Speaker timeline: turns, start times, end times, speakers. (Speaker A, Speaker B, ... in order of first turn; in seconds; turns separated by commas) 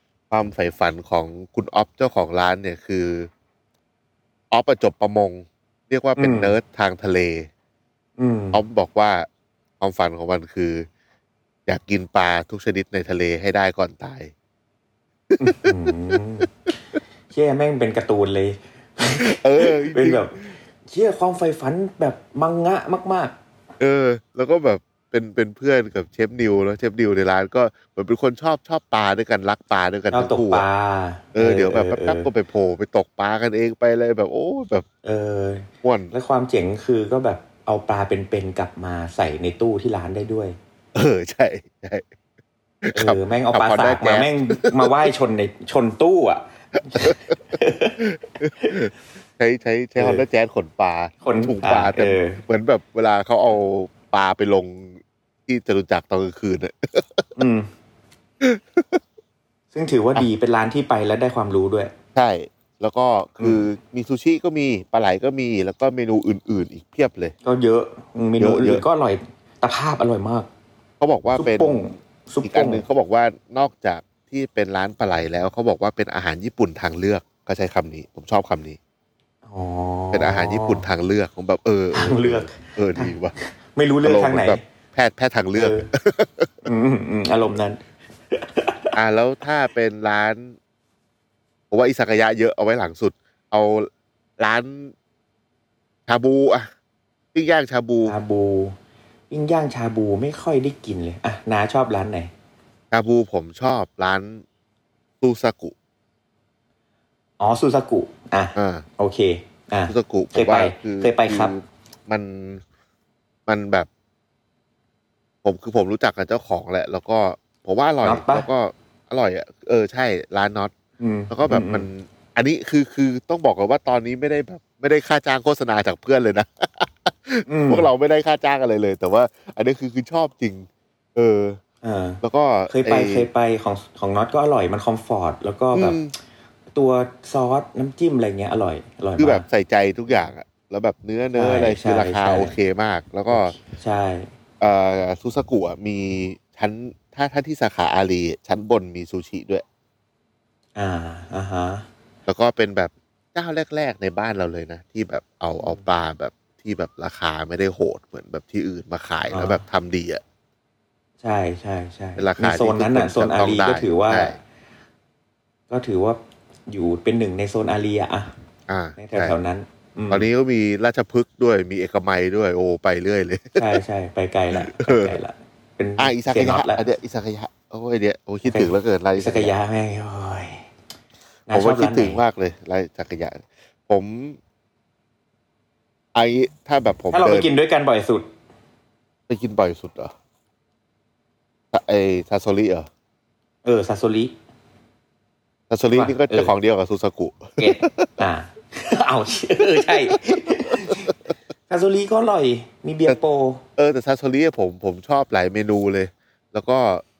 Speaker A: 0.3-3.3, Speaker A: 4.5-7.5, Speaker B: 6.2-6.5, Speaker B: 8.2-8.6, Speaker A: 8.5-9.3, Speaker A: 9.8-10.9, Speaker A: 11.7-14.3, Speaker A: 15.3-15.9, Speaker B: 15.4-16.5, Speaker B: 17.3-23.3, Speaker A: 19.2-20.5, Speaker A: 23.8-30.6, Speaker B: 30.1-32.3, Speaker A: 31.3-34.9, Speaker B: 35.0-40.6, Speaker A: 35.8-36.1, Speaker A: 40.9-42.0, Speaker A: 42.8-45.1, Speaker B: 42.9-48.0, Speaker A: 46.9-47.3, Speaker A: 48.0-57.3, Speaker B: 50.0-50.2, Speaker B: 51.2-52.4, Speaker B: 57.4-57.7, Speaker A: 58.4-59.0, Speaker B: 59.7-61.9, Speaker A: 62.1-67.3, Speaker B: 67.4-70.5, Speaker A: 68.4-68.8, Speaker A: 71.0-71.8, Speaker B: 71.4-72.8, Speaker A: 72.4-78.8, Speaker B: 79.5-80.8, Speaker A: 80.1-83.3, Speaker B: 81.9-84.6, Speaker A: 84.0-86.7, Speaker B: 85.5-85.9, Speaker B: 86.6-87.8, Speaker B: 88.3-88.9, Speaker A: 88.9-90.5, Speaker A: 91.7-94.9, Speaker A: 96.1-96.7, Speaker A: 97.3-98.1, Speaker B: 98.0-98.7, Speaker B: 99.3-102.3, Speaker A: 102.9-104.4, Speaker A: 105.2-105.7, Speaker B: 107.4-111.5, Speaker A: 108.5-108.8, Speaker A: 109.9-112.6, Speaker A: 113.5-113.9, Speaker A: 115.4-120.7, Speaker B: 118.0-118.5, Speaker B: 121.0-121.9, Speaker A: 121.3-131.6, Speaker B: 127.5-127.9, Speaker B: 131.8-136.0, Speaker A: 132.2-133.3, Speaker A: 135.7-136.1, Speaker B: 136.7-139.4, Speaker A: 139.2-143.5, Speaker B: 141.3-142.6, Speaker B: 143.3-144.3, Speaker A: 144.6-149.6, Speaker B: 150.8-151.8, Speaker A: 152.3-160.2, Speaker B: 155.6-155.8, Speaker B: 159.3-159.6, Speaker B: 161.2-164.3, Speaker A: 162.2-164.4, Speaker B: 165.7-166.2, Speaker B: 166.7-168.3, Speaker A: 168.7-169.3, Speaker B: 169.0-170.2, Speaker A: 170.1-173.7, Speaker B: 173.6-176.8, Speaker A: 174.6-175.2, Speaker A: 176.0-179.5, Speaker B: 178.4-180.7, Speaker B: 181.5-182.2, Speaker A: 181.5-184.4, Speaker A: 186.1-187.5, Speaker B: 187.1-188.3, Speaker A: 189.3-190.1, Speaker A: 191.7-192.9, Speaker B: 193.6-194.3, Speaker A: 195.7-198.2, Speaker B: 195.9-196.5, Speaker B: 197.6-201.1, Speaker A: 200.1-201.1, Speaker B: 201.7-203.6, Speaker A: 203.8-207.0